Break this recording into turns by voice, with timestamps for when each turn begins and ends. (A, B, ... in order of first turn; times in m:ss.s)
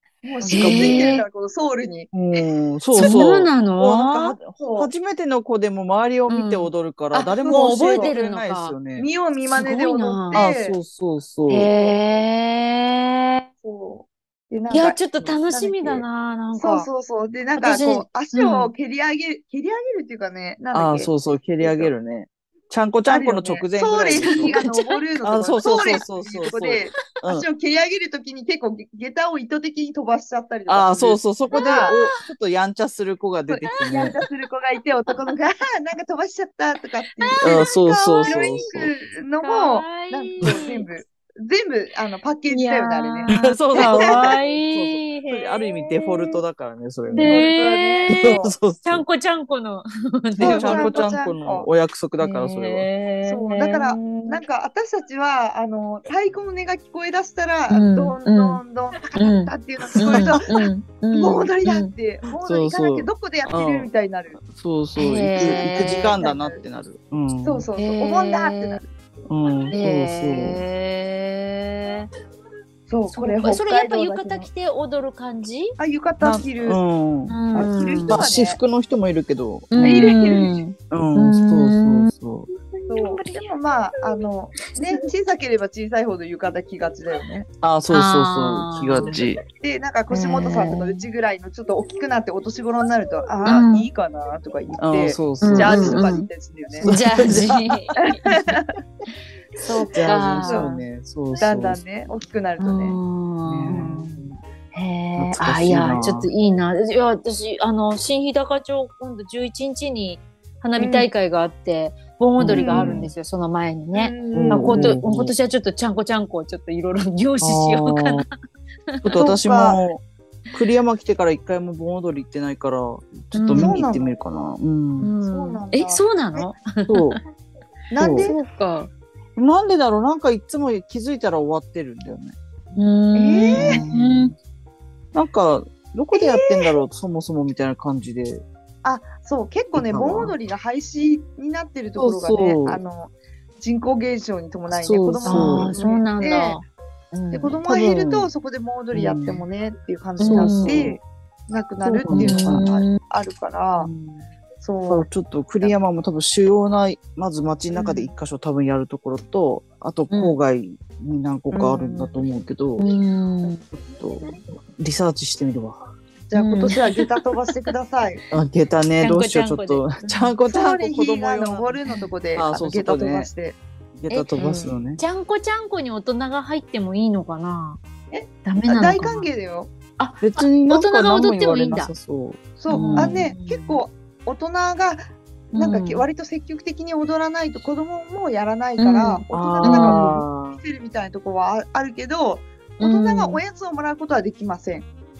0:00.2-0:03.2 A
0:00.4-0:01.2 B
0:00.4-0:01.2 C
0:02.1-0:09.1 B
0:02.9-0:04.0 C
0:04.0-0:04.9 A
0:06.3-0:06.7 C
0:07.1-0:08.1 A
0:07.5-0:08.8 C
0:09.0-0:10.8 A
0:09.5-0:10.4 C
0:10.3-0:11.7 B
0:11.5-0:13.4 C
0:13.6-0:15.0 A
0:14.7-0:16.9 C
0:15.5-0:21.9 A
0:17.6-0:18.7 C
0:20.7-0:24.6 B
0:23.1-0:31.9 A
0:24.2-0:25.0 C
0:25.2-0:27.4 B
0:25.6-0:26.0 C
0:30.7-0:34.2 B
0:31.5-0:32.2 C
0:33.5-0:44.4 A
0:33.6-0:34.4 C
0:35.1-0:35.3 C
0:37.2-0:38.9 C
0:37.4-0:38.9 B
0:39.4-0:40.9 C
0:42.5-0:46.4 C
0:43.3-0:47.4 B
0:47.1-0:51.0 C
0:47.1-0:48.5 A
0:48.1-0:49.0 B
0:50.4-0:52.9 B
0:50.4-0:51.7 A
0:52.2-0:54.4 C
0:53.2-1:00.4 A
0:57.7-0:58.6 C
0:59.1-1:01.9 C
0:59.9-1:00.5 B
1:01.1-1:04.4 A
1:02.4-1:07.7 B
1:05.0-1:06.1 C
1:05.4-1:06.6 A
1:07.4-1:09.3 A
1:07.8-1:08.8 C
1:09.3-1:10.6 B
1:09.7-1:12.1 C
1:12.9-1:14.5 A
1:13.1-1:15.8 C
1:15.8-1:16.8 A
1:16.2-1:17.4 B
1:17.3-1:18.3 C
1:17.5-1:18.6 A
1:18.0-1:20.2 B
1:19.7-1:23.5 C
1:19.8-1:20.6 A
1:20.9-1:22.5 B
1:22.9-1:27.5 A
1:24.6-1:25.0 C
1:27.6-1:29.4 B
1:27.9-1:29.2 C
1:29.5-1:36.9 A
1:30.1-1:31.0 C
1:33.4-1:33.9 C
1:34.8-1:36.1 B
1:35.4-1:36.2 C
1:36.7-1:37.7 B
1:36.8-1:38.2 C
1:38.2-1:38.7 A
1:39.6-1:40.8 C
1:39.9-1:41.8 B
1:40.3-1:40.8 A
1:41.4-1:43.0 A
1:42.6-1:58.2 C
1:43.4-1:44.4 B
1:45.2-1:46.3 B
1:50.8-1:51.1 A
1:52.4-1:53.1 B
1:52.5-1:53.1 A
1:53.9-1:55.0 A
1:54.3-1:55.3 B
1:57.4-1:58.2 B
1:58.9-1:59.2 C
1:59.0-2:05.1 B
1:59.1-1:59.8 A
2:03.3-2:03.8 C
2:03.5-2:04.1 A
2:05.0-2:07.2 C
2:05.2-2:06.5 A
2:06.9-2:07.2 B
2:07.9-2:08.4 A
2:08.0-2:08.3 B
2:08.2-2:08.9 C
2:09.4-2:12.4 B
2:12.8-2:14.3 C
2:13.1-2:13.8 A
2:13.5-2:14.3 B
2:15.1-2:18.4 B
2:16.1-2:16.8 A
2:18.8-2:26.6 A
2:19.8-2:20.3 B
2:22.0-2:22.8 B
2:24.7-2:25.8 B
2:25.2-2:27.6 C
2:27.3-2:33.9 A
2:27.5-2:28.3 B
2:28.9-2:29.4 B
2:30.2-2:30.9 C
2:30.2-2:31.0 B
2:31.8-2:32.6 B
2:32.1-2:33.0 C
2:33.8-2:34.3 B
2:34.6-2:35.1 A
2:34.9-2:42.9 B
2:37.8-2:38.0 A
2:40.1-2:40.4 C
2:41.5-2:42.2 A
2:42.8-2:43.6 C
2:43.7-2:45.9 B
2:46.3-2:48.2 A
2:46.4-2:46.8 C
2:48.3-2:51.8 B
2:49.0-2:50.3 C
2:50.4-2:53.6 A
2:52.3-2:53.3 B
2:54.0-2:55.0 B
2:54.1-2:57.8 C
2:54.4-2:54.8 A
2:58.1-2:59.7 A
2:58.4-2:59.3 C
3:00.0-3:01.9 C
3:00.2-3:03.2 B
3:02.6-3:05.0 A
3:02.7-3:03.8 C
3:05.5-3:14.9 A
3:05.5-3:06.0 C
3:08.8-3:10.2 C
3:09.3-3:10.6 B
3:12.8-3:13.4 C